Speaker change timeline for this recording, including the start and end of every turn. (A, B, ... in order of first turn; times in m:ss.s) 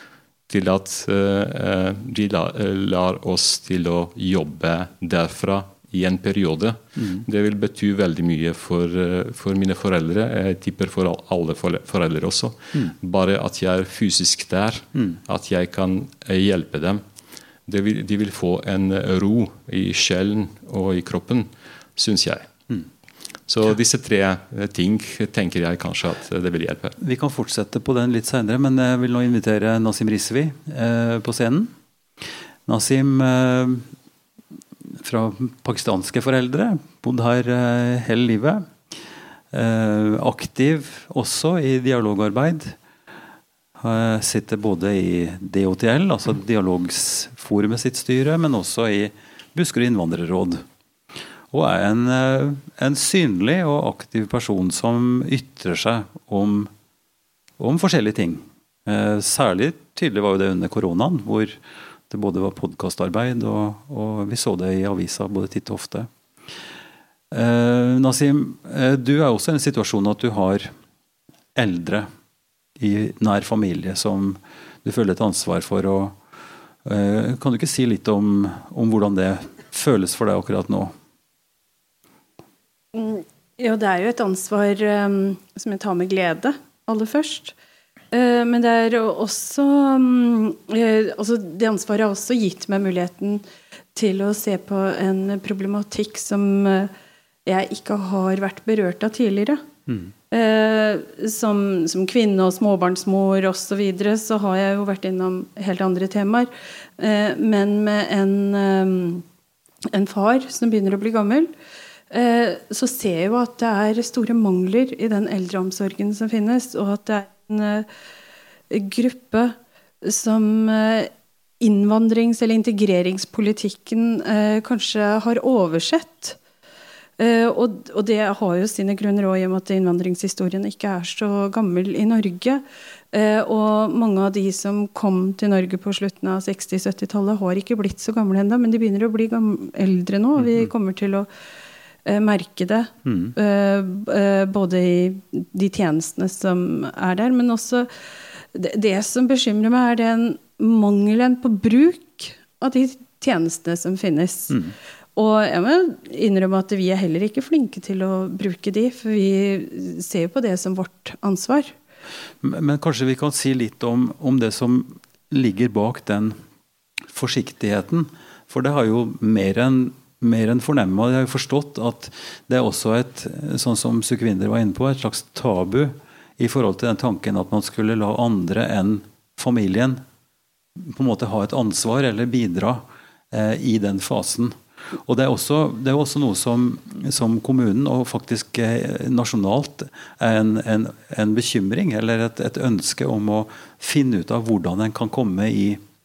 0:00.5-0:17.0 A
0:07.0-0:07.2 B
0:15.0-0:15.2 B
0:17.7-0:22.5 A
0:23.5-0:27.0 A
0:27.0-0:31.7 B
0:32.7-0:33.9 B
0:35.0-0:38.7 B
0:39.5-0:42.8 B
0:43.8-0:50.6 B
0:51.5-0:56.7 B
0:57.6-1:01.6 B
1:02.1-1:06.1 B
1:07.3-1:10.7 B
1:11.6-1:12.1 B
1:12.8-1:16.2 B
1:16.8-1:20.9 B
1:22.9-1:27.6 C
1:28.1-1:33.4 C
1:33.9-1:36.9 C
1:37.5-1:39.6 C
1:39.9-1:40.1 B
1:40.3-1:49.2 C
1:49.9-1:51.5 C
1:52.1-1:57.9 C
1:58.7-2:06.4 C
2:07.2-2:21.3 C
2:20.4-2:20.7 B
2:22.0-2:27.9 C
2:23.0-2:23.4 B
2:28.5-2:34.6 C
2:35.2-2:41.7 C
2:42.4-2:46.4 B
2:47.1-3:00.0 B
3:00.8-3:15.8 B